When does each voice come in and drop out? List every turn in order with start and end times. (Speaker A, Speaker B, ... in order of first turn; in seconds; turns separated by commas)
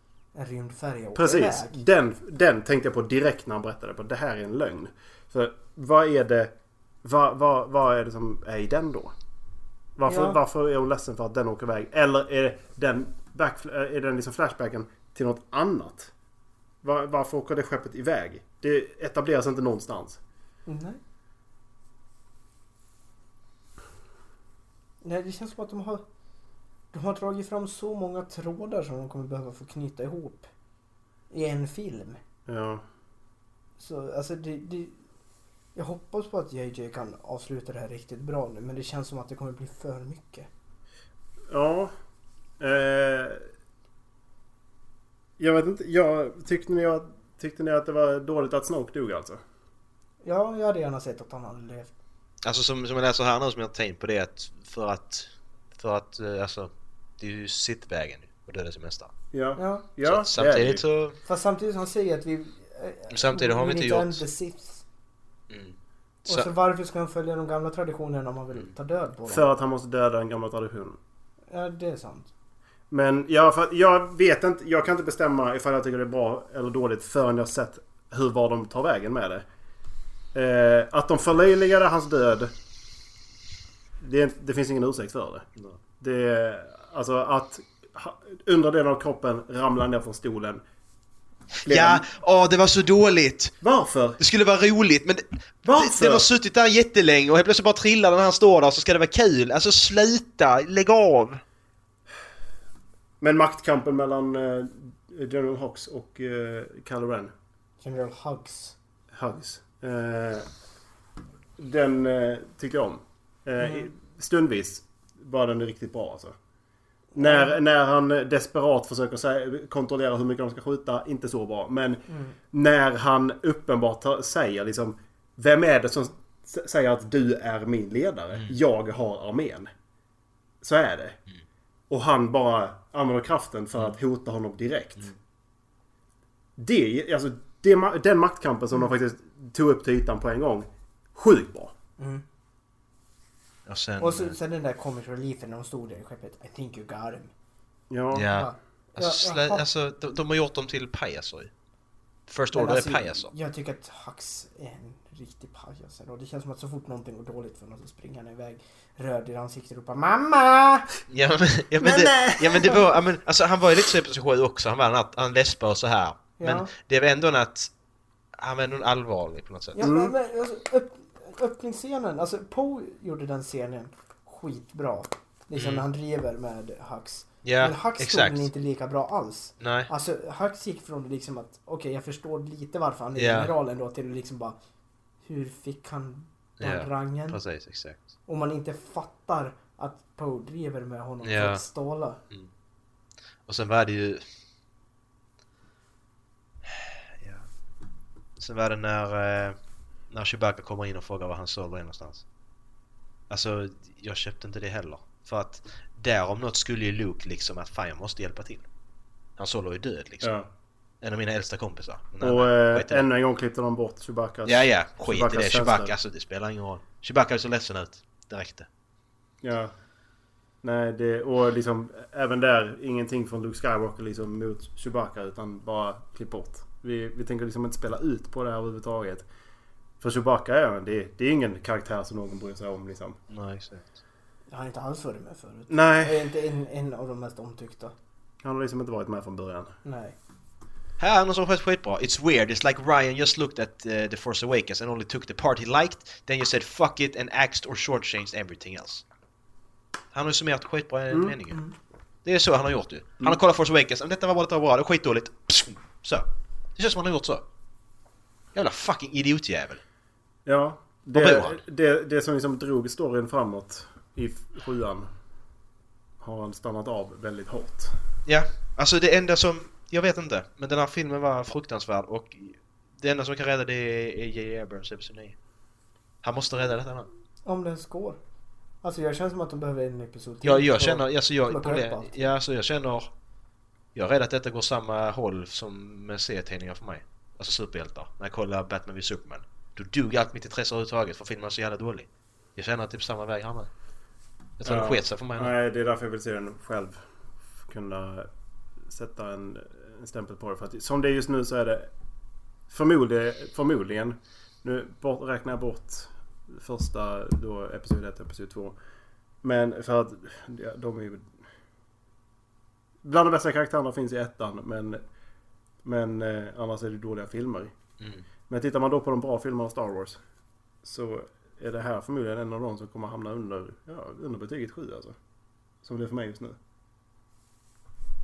Speaker A: 0.3-1.8, Speaker B: 1.1-6.5, Speaker B: 7.0-9.1, Speaker B: 10.0-16.1, Speaker A: 10.1-10.4, Speaker B: 16.8-20.2, Speaker A: 20.7-21.0, Speaker A: 25.0-26.0, Speaker A: 26.9-30.5, Speaker A: 31.3-32.2, Speaker B: 32.5-32.8, Speaker A: 33.8-35.0, Speaker A: 35.8-40.5, Speaker B: 41.5-41.9, Speaker B: 42.6-43.4, Speaker B: 45.4-49.4, Speaker A: 50.2-51.9, Speaker C: 52.4-59.1, Speaker B: 59.3-60.8, Speaker A: 59.6-59.9, Speaker C: 60.0-61.2, Speaker A: 61.2-64.8, Speaker C: 63.1-64.2, Speaker C: 65.5-66.5, Speaker A: 66.3-69.5, Speaker B: 69.3-71.0, Speaker A: 71.5-72.3, Speaker B: 72.9-79.5, Speaker B: 80.3-82.5, Speaker B: 84.0-90.6, Speaker C: 91.6-93.6, Speaker B: 91.7-92.1, Speaker B: 93.6-94.2, Speaker C: 94.2-101.4, Speaker B: 95.7-96.3, Speaker B: 103.2-107.3, Speaker A: 107.8-108.8, Speaker B: 109.1-110.5, Speaker B: 111.6-116.3, Speaker A: 113.6-113.9, Speaker A: 117.1-117.6, Speaker B: 117.2-129.7, Speaker A: 122.1-122.4, Speaker B: 130.6-131.2, Speaker B: 131.9-135.1, Speaker B: 136.6-141.7, Speaker A: 142.0-142.2, Speaker C: 143.7-144.3, Speaker A: 144.0-147.3, Speaker B: 147.9-148.3, Speaker C: 148.1-151.5, Speaker A: 148.3-149.6, Speaker C: 152.3-153.3, Speaker A: 152.5-160.9, Speaker C: 161.1-167.7, Speaker B: 161.8-162.8, Speaker A: 166.4-166.7, Speaker C: 168.4-169.9, Speaker A: 169.8-184.6, Speaker B: 169.8-170.1, Speaker C: 175.6-175.8, Speaker C: 177.4-178.5, Speaker C: 179.6-179.9, Speaker C: 183.2-183.5, Speaker A: 185.2-187.4, Speaker C: 186.6-188.0, Speaker A: 188.3-192.2, Speaker C: 191.2-191.6, Speaker C: 193.5-194.2, Speaker C: 196.7-197.5, Speaker C: 198.4-199.6, Speaker C: 200.1-202.2, Speaker C: 203.3-208.7, Speaker C: 209.4-210.3, Speaker B: 210.2-210.5, Speaker C: 211.0-213.1, Speaker B: 212.2-215.9, Speaker C: 214.4-218.7, Speaker B: 219.4-219.7, Speaker B: 220.6-229.3, Speaker B: 230.0-233.2, Speaker C: 233.3-234.0, Speaker A: 234.5-237.9, Speaker B: 235.7-236.3, Speaker B: 238.4-239.8, Speaker A: 239.8-240.2, Speaker C: 241.0-249.0, Speaker C: 250.1-251.6, Speaker B: 251.1-251.4, Speaker C: 252.2-257.4, Speaker C: 258.6-259.8, Speaker B: 260.5-265.1, Speaker C: 261.1-261.6, Speaker B: 266.2-268.0, Speaker C: 268.3-275.4, Speaker C: 276.2-277.1, Speaker A: 277.4-278.2, Speaker A: 278.8-282.2, Speaker C: 280.4-283.1, Speaker C: 283.9-293.7, Speaker C: 294.6-295.5, Speaker B: 294.6-297.0, Speaker B: 297.6-298.3, Speaker B: 298.9-301.9, Speaker B: 302.7-308.8, Speaker B: 309.4-311.3, Speaker B: 313.0-315.0, Speaker B: 315.8-317.7, Speaker C: 318.0-318.3, Speaker B: 318.5-320.2, Speaker B: 320.8-325.2, Speaker B: 325.8-326.6